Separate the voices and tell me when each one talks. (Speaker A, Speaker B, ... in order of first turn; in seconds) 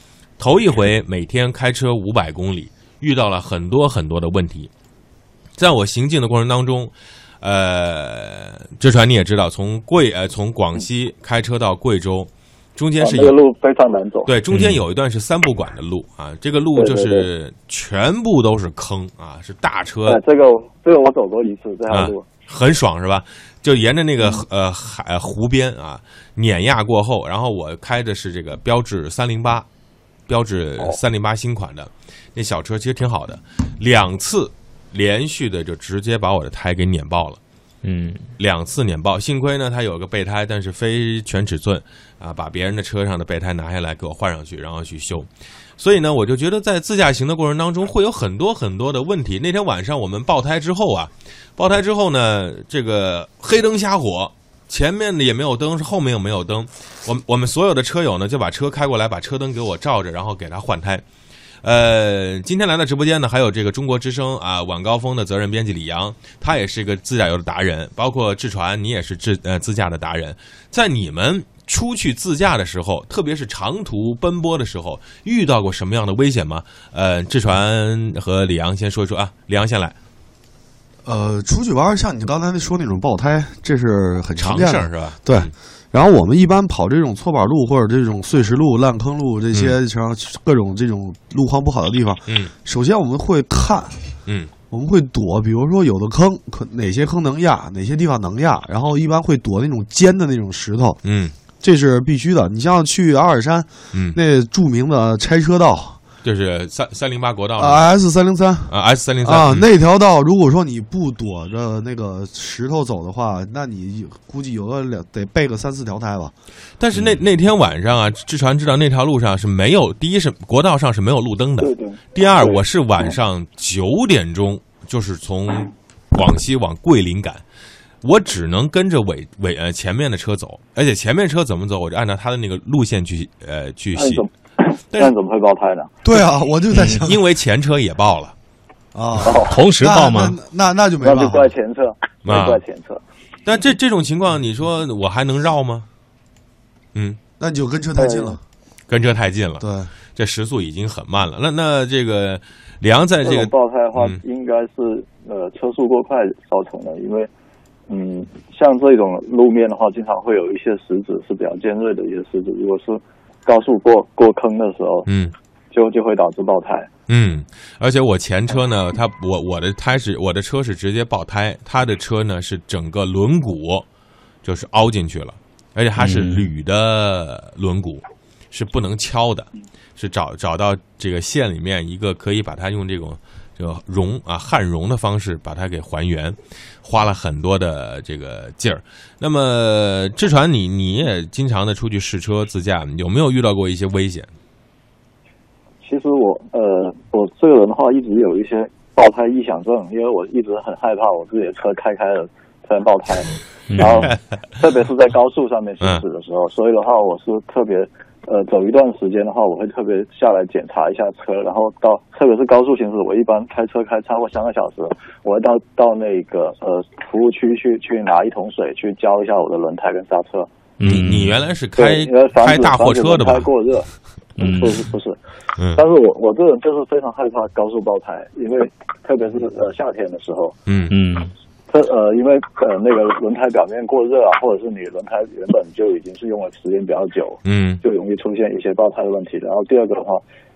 Speaker A: 0.4-4.7, 5.5-13.3, 14.2-20.2, 21.9-29.6, 30.3-37.4, 38.4-61.0, 61.6-79.9, 84.4-85.5, 92.3-92.5, 101.0-101.3, 103.9-104.2, 106.2-107.8, 108.7-109.7, 116.8-127.4, 128.0-134.2, 137.0-138.3, 142.2-142.6, 143.4-145.9, 148.9-154.2, 165.1-165.3, 167.1-173.8, 174.4-194.3, 220.8-223.5, 230.7-230.9, 237.4-237.8
Speaker B: 13.0-14.3, 16.7-17.3, 20.1-22.2, 121.6-123.1, 133.9-135.9, 139.2-139.6, 141.0-143.0, 148.0-148.4, 153.2-157.3, 157.9-165.1, 165.7-166.9, 195.8-220.5, 221.8-223.9, 224.4-225.2, 225.7-230.6, 231.7-240.2
Speaker C: 14.5-14.8, 37.8-38.3, 136.7-137.0, 139.4-140.4, 176.0-176.4, 203.7-204.1, 220.8-221.3, 224.4-224.9, 230.9-231.3
Speaker D: 81.0-94.0, 94.7-101.0, 101.6-106.0, 107.6-116.3, 136.0-137.2, 138.9-141.5, 147.4-148.4, 149.6-149.9